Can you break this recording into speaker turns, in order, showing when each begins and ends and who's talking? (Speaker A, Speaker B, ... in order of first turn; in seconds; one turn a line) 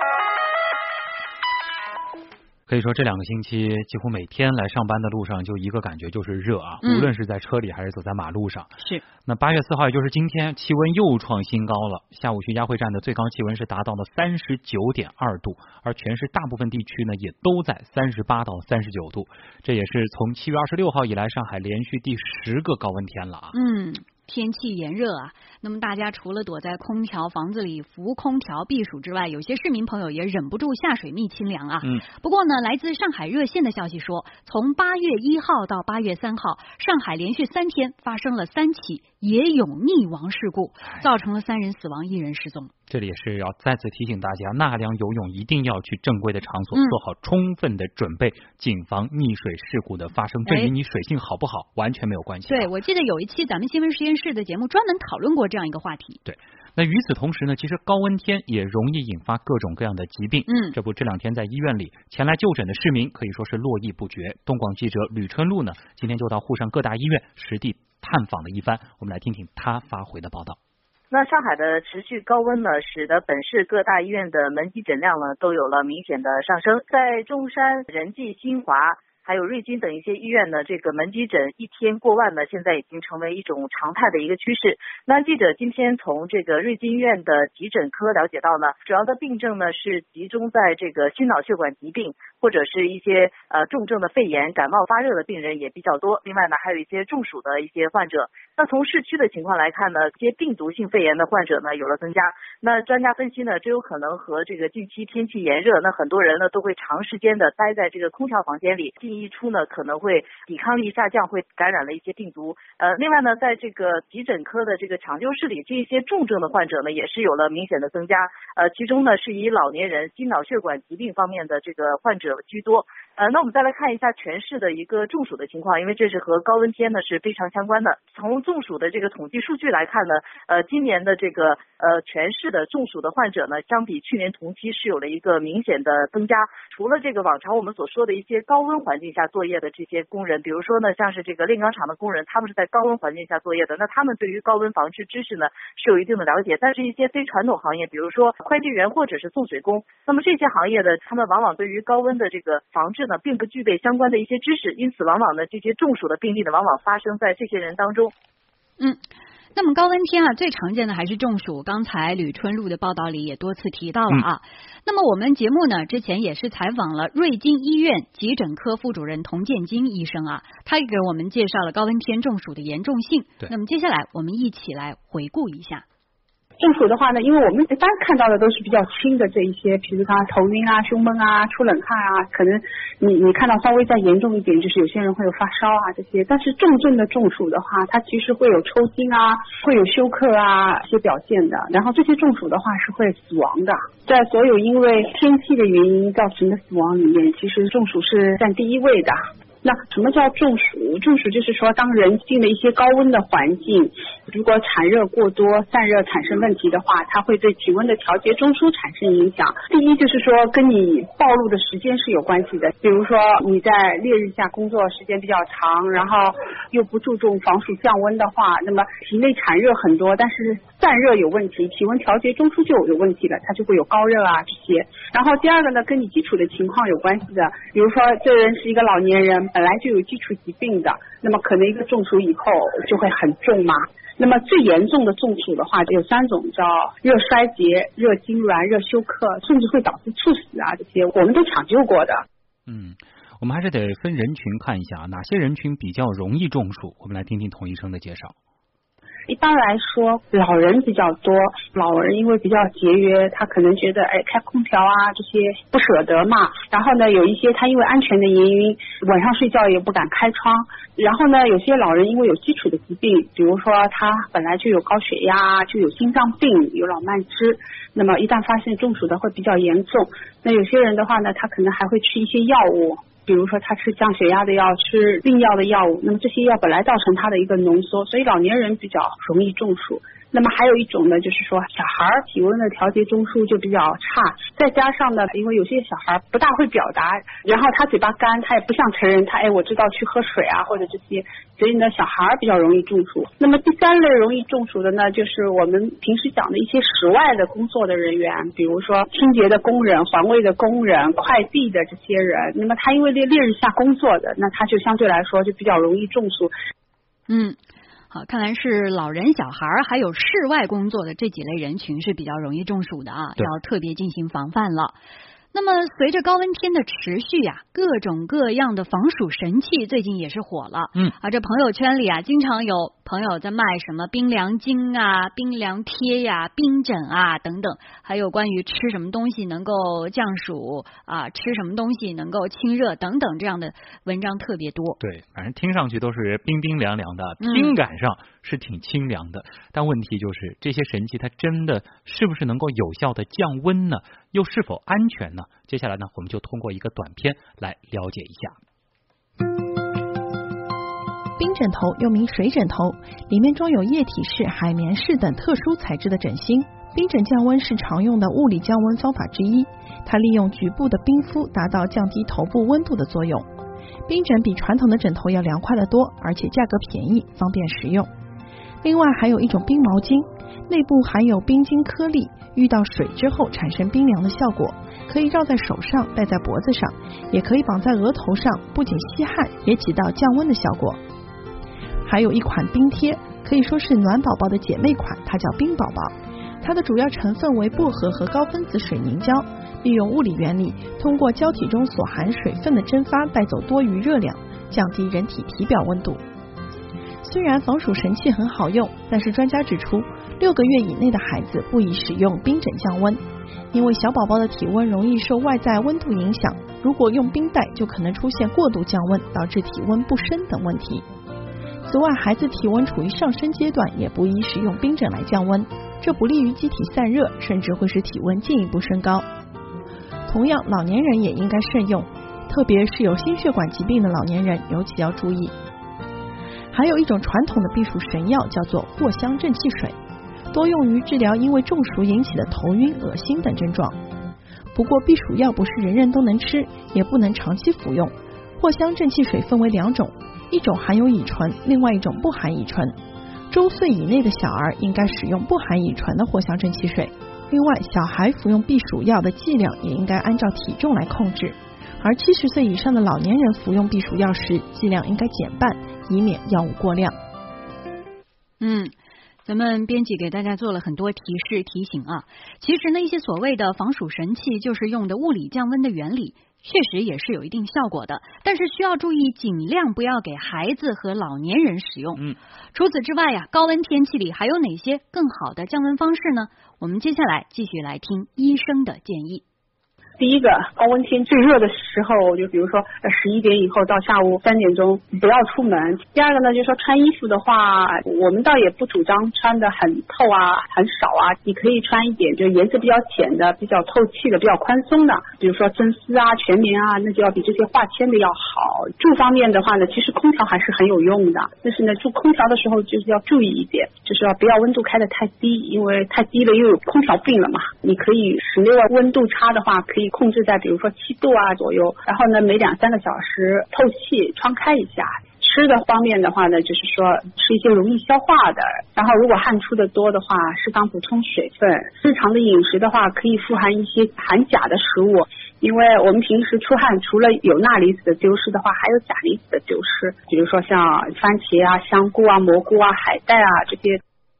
Speaker A: 2.7-8.7
Speaker B: 6.8-7.1
Speaker A: 9.3-23.5
Speaker B: 23.5-42.7
Speaker A: 42.9-52.7
Speaker B: 50.5-50.7
Speaker B: 52.5-56.2
Speaker A: 56.3-70.6
Speaker B: 60.5-60.8
Speaker C: 71.1-158.1
Speaker B: 159.6-175.8
Speaker D: 176.6-242.2
Speaker A: 242.7-248.3
Speaker D: 249.3-306.5
Speaker B: 307.3-307.6
Speaker B: 308.1-315.0
Speaker B: 315.5-335.0
Speaker A: 335.0-348.6
Speaker B: 337.4-337.8
Speaker E: 351.4-363.5
Speaker E: 364.1-368.1
Speaker E: 368.8-381.0
Speaker E: 382.1-396.2
Speaker E: 397.2-403.2
Speaker E: 403.7-411.1
Speaker E: 411.9-419.2
Speaker E: 420.3-425.6
Speaker E: 426.7-429.9
Speaker E: 430.5-434.0
Speaker E: 434.8-443.0
Speaker E: 443.5-457.2
Speaker B: 458.6-458.9
Speaker B: 459.4-472.2
Speaker B: 472.7-479.4
Speaker D: 480.2-534.0